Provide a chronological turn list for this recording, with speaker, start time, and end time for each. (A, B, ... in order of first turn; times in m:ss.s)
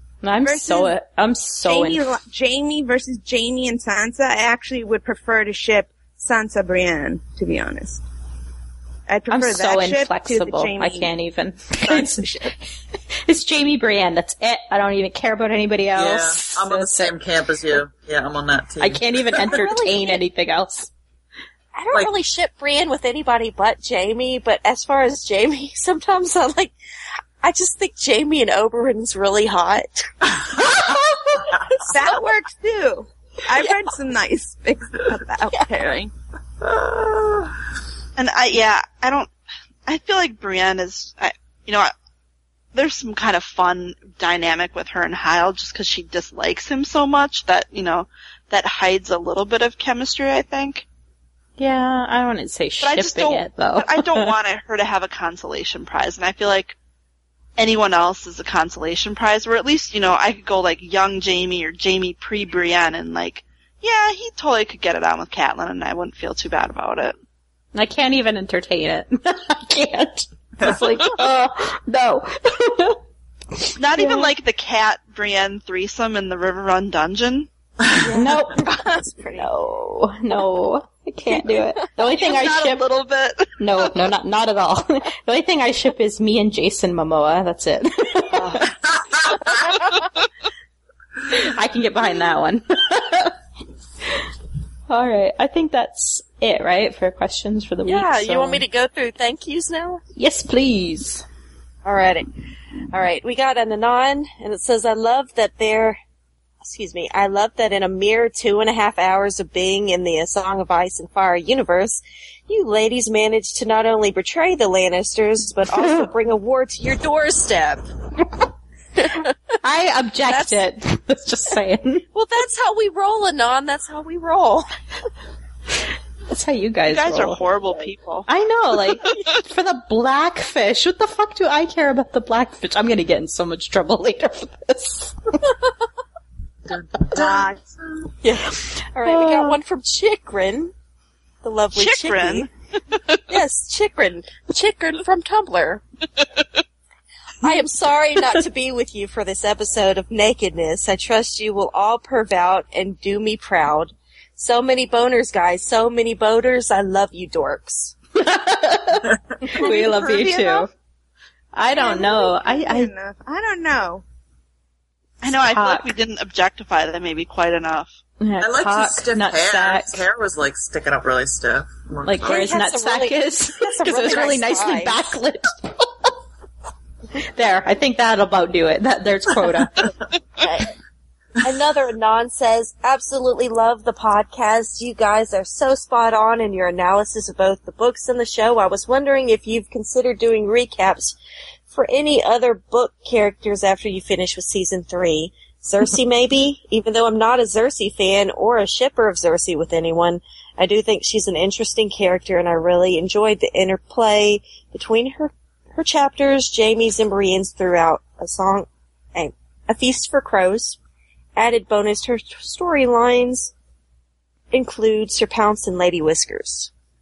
0:00.2-0:02.2 A
0:00.4-0:00.9 B
0:01.7-0:08.0 B
0:09.1-0:11.1 B
0:09.3-0:12.6 A
0:11.9-0:12.2 C
0:13.1-0:17.2 A
0:16.0-0:19.6 D
0:18.8-0:20.9 A
0:19.4-0:20.2 C
0:21.7-0:26.8 C
0:27.4-0:30.1 C
0:31.8-0:36.1 B
0:36.6-0:37.6 D
0:38.2-0:39.3 E
0:39.9-0:41.9 E
0:42.7-0:50.9 E
0:51.6-0:54.3 A
0:52.8-0:56.8 E
0:57.6-1:07.2 E
1:07.8-1:13.0 A
1:10.6-1:11.0 D
1:13.6-1:14.3 A
1:13.8-1:17.5 E
1:18.0-1:19.5 C
1:18.1-1:18.7 A
1:19.4-1:22.8 A
1:22.1-1:23.9 E
1:23.6-1:28.7 A
1:28.7-1:29.8 D
1:29.5-1:30.0 C
1:31.3-1:33.4 A
1:34.9-1:38.6 A
1:37.8-1:40.0 C
1:40.2-1:41.2 A
1:41.8-1:42.3 C
1:42.9-1:46.0 C
1:46.6-1:57.9 C
1:55.8-1:56.1 A
1:59.0-1:59.5 C
1:59.6-2:02.1 A
2:00.3-2:00.6 C
2:02.1-2:04.7 C
2:06.3-2:07.4 A
2:06.9-2:08.3 E
2:08.3-2:15.2 A
2:16.7-2:17.6 D
2:17.1-2:17.4 A
2:18.2-2:20.7 C
2:18.7-2:19.6 A
2:21.4-2:22.5 C
2:21.7-2:23.2 E
2:23.3-2:25.8 C
2:27.4-2:38.0 C
2:38.2-2:40.7 A
2:39.5-2:40.7 B
2:41.6-2:42.9 A
2:41.7-2:44.0 B
2:45.2-2:48.0 E
2:45.3-2:45.9 A
2:48.2-2:50.0 A
2:48.4-2:52.4 D
2:52.1-2:56.1 A
2:52.2-2:55.2 C
2:57.3-2:59.9 A
3:00.4-3:00.7 C
3:01.4-3:11.2 C
3:11.7-3:30.8 C
3:31.4-3:33.5 C
3:34.5-3:36.7 C